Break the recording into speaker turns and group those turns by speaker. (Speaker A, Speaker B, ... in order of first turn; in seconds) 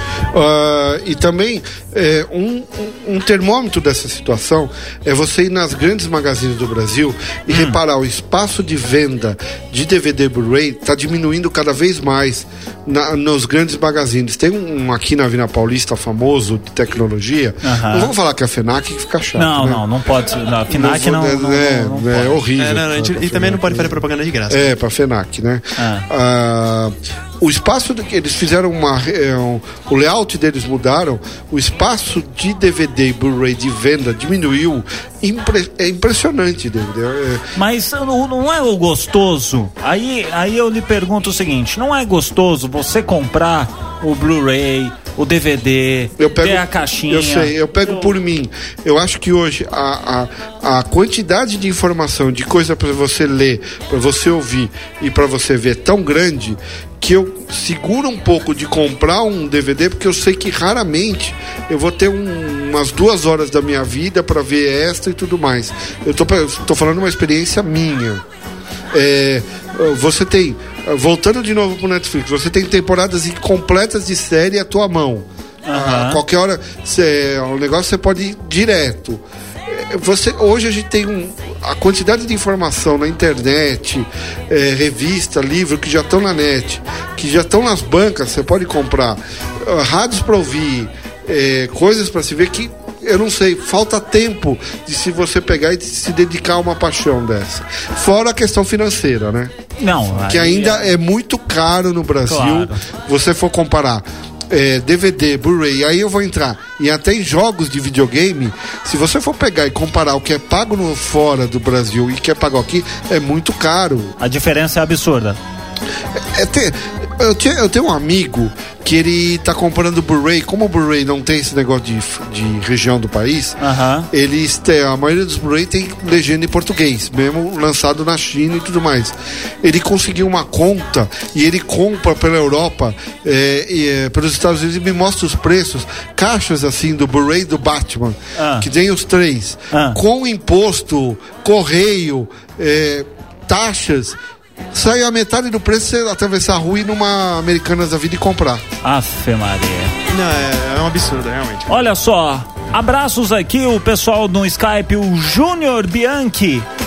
Speaker A: 0.3-19.8, 20.7-24.0, 24.5-37.4, 46.2-68.2, 68.9-99.5, 100.2-114.2, 116.1-123.6, 124.1-144.2, 144.7-148.6
Speaker B: 7.5-7.8, 17.6-18.1, 19.4-22.4, 25.8-26.1, 37.5-48.1, 75.7-76.2, 99.8-100.9, 102.3-102.8, 114.2-115.4, 123.6-124.1, 138.3-138.7, 139.7-140.0, 148.8-149.9, 151.7-156.7
Speaker C: 22.6-24.7, 150.1-151.7